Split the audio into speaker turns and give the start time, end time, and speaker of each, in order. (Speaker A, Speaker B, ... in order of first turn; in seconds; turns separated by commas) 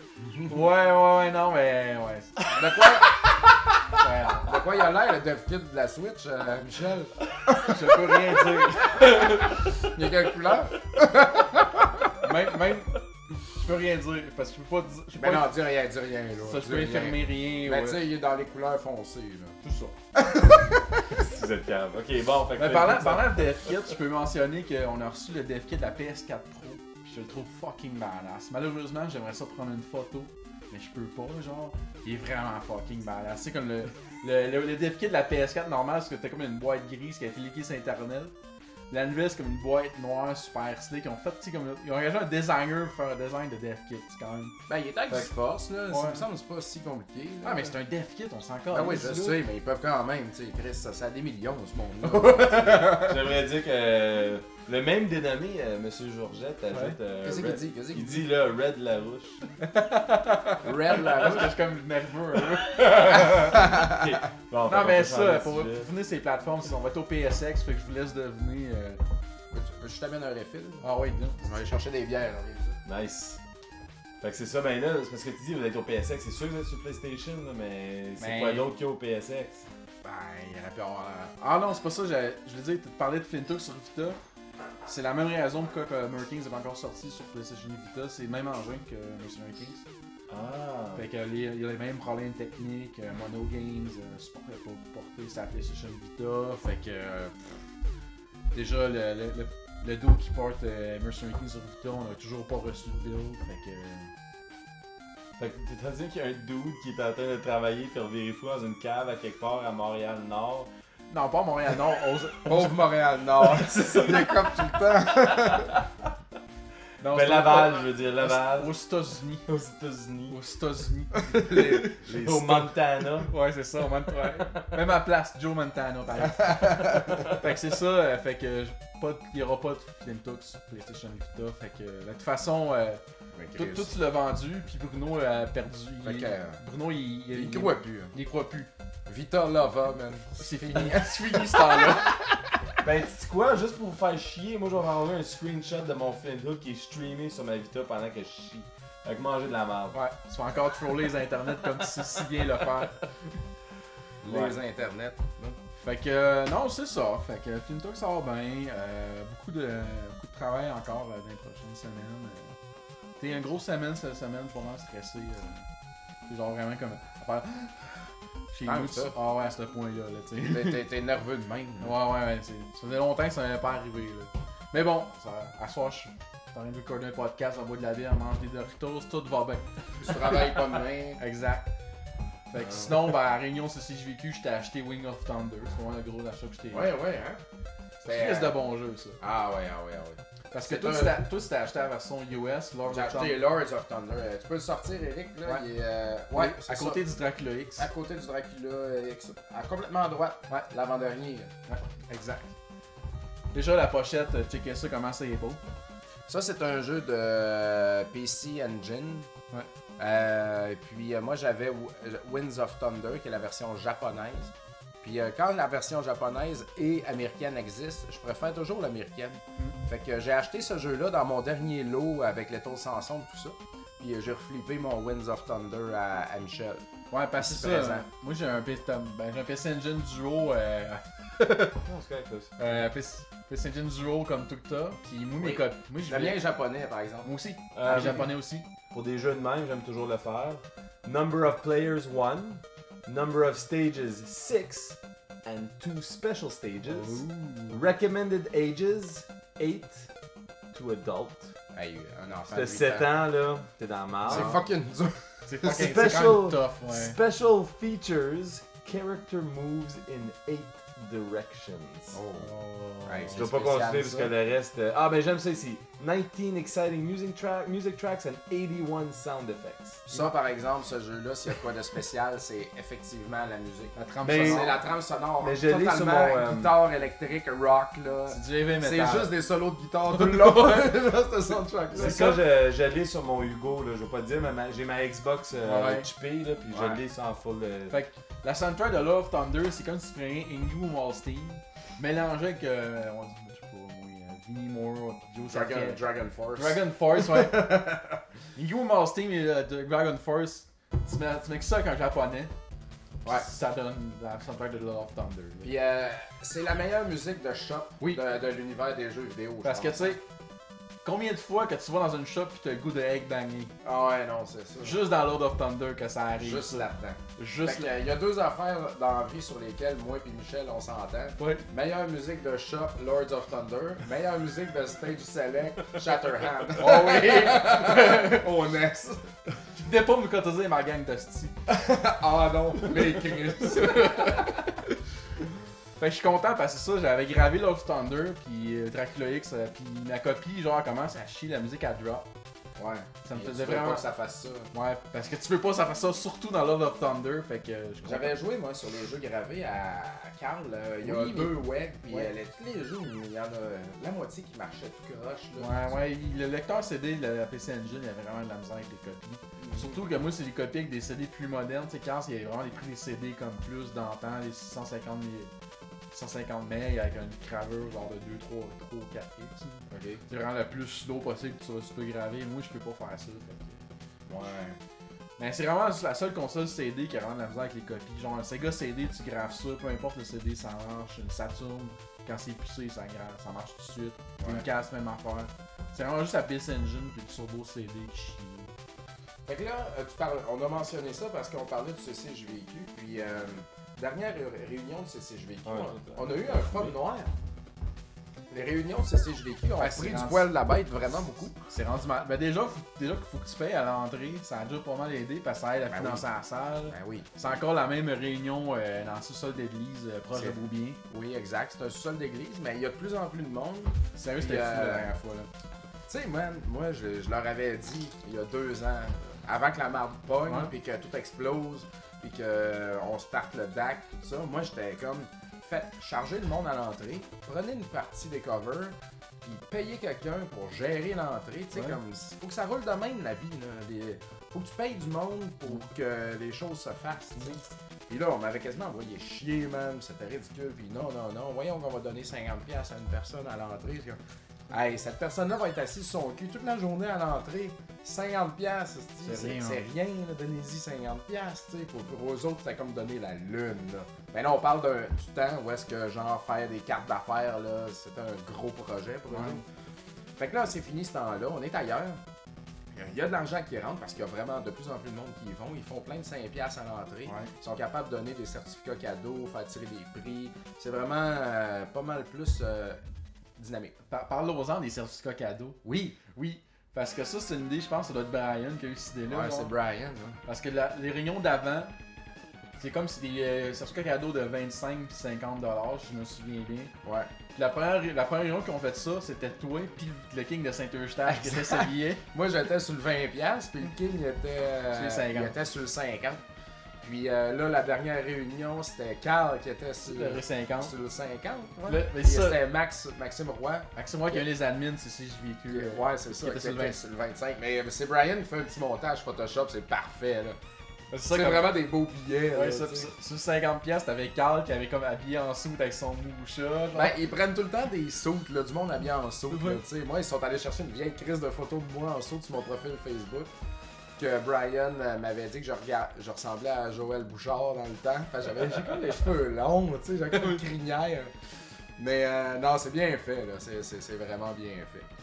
Speaker A: 0.5-2.4, Speaker B: 2.5-3.2, Speaker A: 4.0-4.6, Speaker B: 4.4-7.8, Speaker A: 7.6-9.5, Speaker B: 9.1-11.8, Speaker A: 12.2-15.6, Speaker B: 15.1-19.6, Speaker A: 16.4-18.0, Speaker A: 19.6-20.0, Speaker B: 20.2-20.8, Speaker C: 21.1-23.6, Speaker A: 22.6-38.3, Speaker A: 38.9-44.5, Speaker B: 44.7-47.7, Speaker A: 45.9-46.2, Speaker A: 47.4-49.4, Speaker B: 48.7-53.2, Speaker C: 52.2-59.4, Speaker A: 56.7-57.0, Speaker B: 57.2-58.2, Speaker A: 59.6-63.8, Speaker B: 60.6-61.5, Speaker C: 62.8-65.9, Speaker B: 63.5-64.0, Speaker A: 64.7-69.0, Speaker B: 69.5-70.9, Speaker A: 70.8-71.4, Speaker B: 71.4-72.8, Speaker C: 72.8-73.4, Speaker C: 74.2-79.7, Speaker A: 78.2-78.7, Speaker B: 80.0-81.3, Speaker A: 81.4-84.2, Speaker A: 84.8-89.8, Speaker C: 90.3-91.0, Speaker A: 90.9-97.6, Speaker A: 98.5-104.1, Speaker C: 105.4-110.7, Speaker A: 111.1-112.8, Speaker B: 112.4-115.8, Speaker C: 113.5-114.4, Speaker C: 115.3-115.8, Speaker A: 117.0-119.5, Speaker C: 117.1-118.7, Speaker C: 119.5-120.4, Speaker A: 120.3-133.0, Speaker B: 121.3-121.9, Speaker C: 122.0-123.3, Speaker B: 133.3-133.9, Speaker A: 133.5-138.7, Speaker B: 136.0-136.6, Speaker B: 137.3-138.1, Speaker B: 139.1-142.1, Speaker A: 140.4-142.2, Speaker C: 142.8-150.0, Speaker A: 149.9-153.0, Speaker B: 154.2-155.6, Speaker C: 154.3-154.5, Speaker A: 155.8-162.6, Speaker A: 163.2-165.6, Speaker A: 166.3-170.8, Speaker B: 168.7-169.1, Speaker B: 170.4-171.9, Speaker A: 171.8-180.6, Speaker B: 180.0-181.2, Speaker A: 181.2-181.7, Speaker A: 182.5-186.9, Speaker B: 186.7-187.4, Speaker B: 188.0-188.6, Speaker A: 188.0-189.2, Speaker B: 189.2-191.2, Speaker A: 190.5-193.4, Speaker B: 192.9-197.0, Speaker A: 196.3-197.9, Speaker B: 197.8-201.5, Speaker A: 201.7-202.5, Speaker A: 203.5-205.6, Speaker B: 206.3-209.3, Speaker B: 210.0-226.8, Speaker A: 227.1-231.8, Speaker B: 227.4-228.1, Speaker C: 231.8-232.5, Speaker A: 232.6-236.4, Speaker B: 235.4-237.3, Speaker A: 237.2-238.7, Speaker C: 237.7-238.3, Speaker B: 237.9-238.3, Speaker C: 238.9-250.1, Speaker A: 246.8-247.8, Speaker C: 250.7-251.5, Speaker B: 251.7-253.1, Speaker C: 252.5-254.6, Speaker B: 254.2-256.1, Speaker A: 254.3-254.6, Speaker A: 255.5-257.2, Speaker C: 255.6-262.2, Speaker B: 262.1-262.5, Speaker A: 262.4-263.4, Speaker B: 263.0-264.3, Speaker C: 263.3-270.0, Speaker B: 270.1-282.2, Speaker A: 273.9-274.8, Speaker C: 274.2-274.8, Speaker C: 275.4-276.7, Speaker A: 278.3-279.3, Speaker A: 280.2-280.8, Speaker A: 281.9-282.4, Speaker C: 281.9-287.9, Speaker A: 285.6-286.1, Speaker B: 286.7-287.0, Speaker A: 287.9-296.0, Speaker B: 295.5-298.2, Speaker A: 296.5-297.8, Speaker A: 298.5-302.5, Speaker A: 303.2-305.7, Speaker B: 305.6-310.1, Speaker A: 309.6-310.2, Speaker A: 311.0-313.7, Speaker B: 313.8-315.0, Speaker A: 314.8-316.9, Speaker B: 316.4-329.3, Speaker A: 317.4-317.9, Speaker A: 321.4-321.6, Speaker A: 326.7-328.5, Speaker A: 329.7-331.6, Speaker B: 331.7-334.5, Speaker A: 333.1-334.9, Speaker A: 336.0-342.3, Speaker B: 342.8-344.7, Speaker A: 343.2-344.0, Speaker A: 344.7-348.4, Speaker B: 348.0-356.0, Speaker A: 351.0-352.3, Speaker A: 355.6-365.5, Speaker B: 359.6-360.0, Speaker A: 366.1-373.8, Speaker B: 369.9-370.2, Speaker B: 374.3-374.8, Speaker A: 375.4-388.7, Speaker B: 384.4-384.6, Speaker B: 389.4-397.3, Speaker C: 395.6-397.0, Speaker B: 398.5-401.6, Speaker A: 399.8-400.5, Speaker A: 401.7-411.0, Speaker B: 405.9-406.2, Speaker B: 406.9-407.6, Speaker B: 411.1-415.1, Speaker A: 414.1-415.5, Speaker B: 416.1-459.6, Speaker A: 420.5-420.7, Speaker A: 449.2-449.8, Speaker A: 459.3-459.6, Speaker B: 460.4-462.2, Speaker B: 462.9-473.0, Speaker B: 473.6-473.9, Speaker A: 474.1-475.8, Speaker B: 475.8-476.2, Speaker A: 476.3-479.7, Speaker B: 479.3-480.4, Speaker A: 480.4-482.0, Speaker A: 482.8-486.9, Speaker B: 487.0-487.3, Speaker A: 487.5-492.2, Speaker B: 491.3-496.4, Speaker A: 494.9-495.5, Speaker B: 497.0-504.4, Speaker A: 500.1-500.9, Speaker A: 501.9-502.6, Speaker A: 503.9-507.0, Speaker B: 505.7-510.6, Speaker A: 511.1-511.8, Speaker B: 511.3-513.1, Speaker A: 512.5-517.1, Speaker B: 516.9-523.5, Speaker A: 519.5-519.8, Speaker B: 524.2-531.3, Speaker B: 532.0-535.0